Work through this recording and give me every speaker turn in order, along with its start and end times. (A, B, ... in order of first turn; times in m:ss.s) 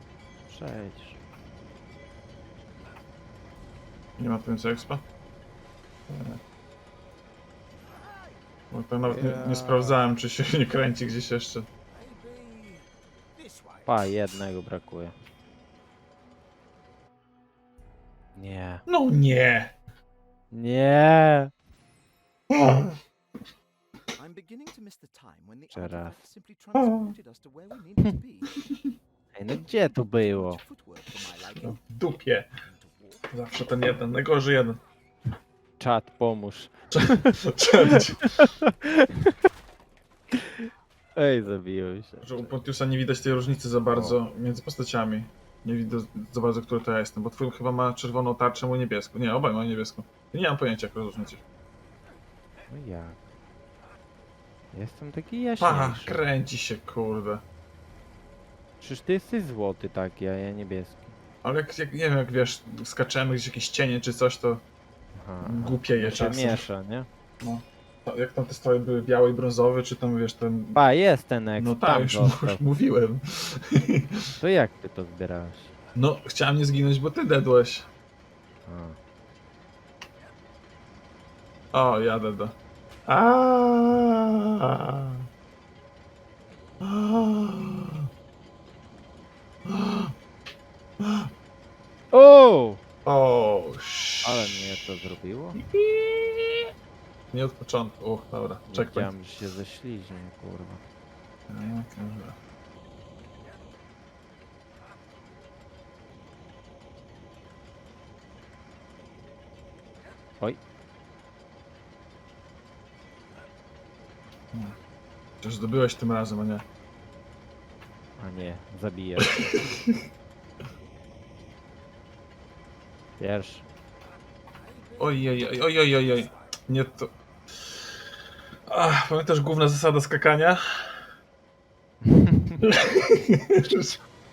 0:00.5-0:01.2 A
0:04.2-0:05.0 B
0:06.1-0:06.4 B
0:08.7-0:11.7 B
0:09.0-0:10.0 A
0:12.1-0:12.8 C
0:13.8-0:15.1 A
0:18.3-0:18.8 A
0:18.9-0:19.7 B
0:20.5-0:21.5 A
0:22.5-0:23.0 B
0:24.2-0:28.5 C
0:25.7-0:26.2 A
0:26.7-0:27.1 B
0:29.3-0:30.6 A
0:30.2-0:33.3 C
0:31.5-0:32.5 B
0:33.3-0:34.8 B
0:35.8-0:39.3 A
0:36.9-0:38.3 B
0:40.3-0:42.6 A
0:42.2-0:51.4 B
0:52.7-0:53.2 A
0:54.7-0:56.2 A
0:55.6-0:57.4 B
0:58.8-1:01.2 A
1:01.4-1:04.6 B
1:05.1-1:07.1 A
1:05.4-1:06.7 B
1:07.4-1:10.8 B
1:10.7-1:12.6 A
1:11.6-1:14.1 B
1:14.4-1:15.7 A
1:15.9-1:17.9 B
1:18.6-1:19.0 A
1:21.7-1:22.6 B
1:23.1-1:25.2 B
1:26.8-1:28.1 B
1:29.7-1:30.1 B
1:31.0-1:31.3 B
1:32.1-1:32.8 A
1:33.0-1:34.6 B
1:34.2-1:35.6 A
1:35.6-1:36.7 B
1:37.3-1:39.1 B
1:38.7-1:40.8 A
1:41.5-1:42.4 B
1:55.4-1:56.6 B
1:58.2-1:59.7 A
2:03.2-2:03.6 A
2:05.0-2:07.1 B
2:08.7-2:11.1 B
2:12.0-2:12.6 A
2:12.6-2:14.0 B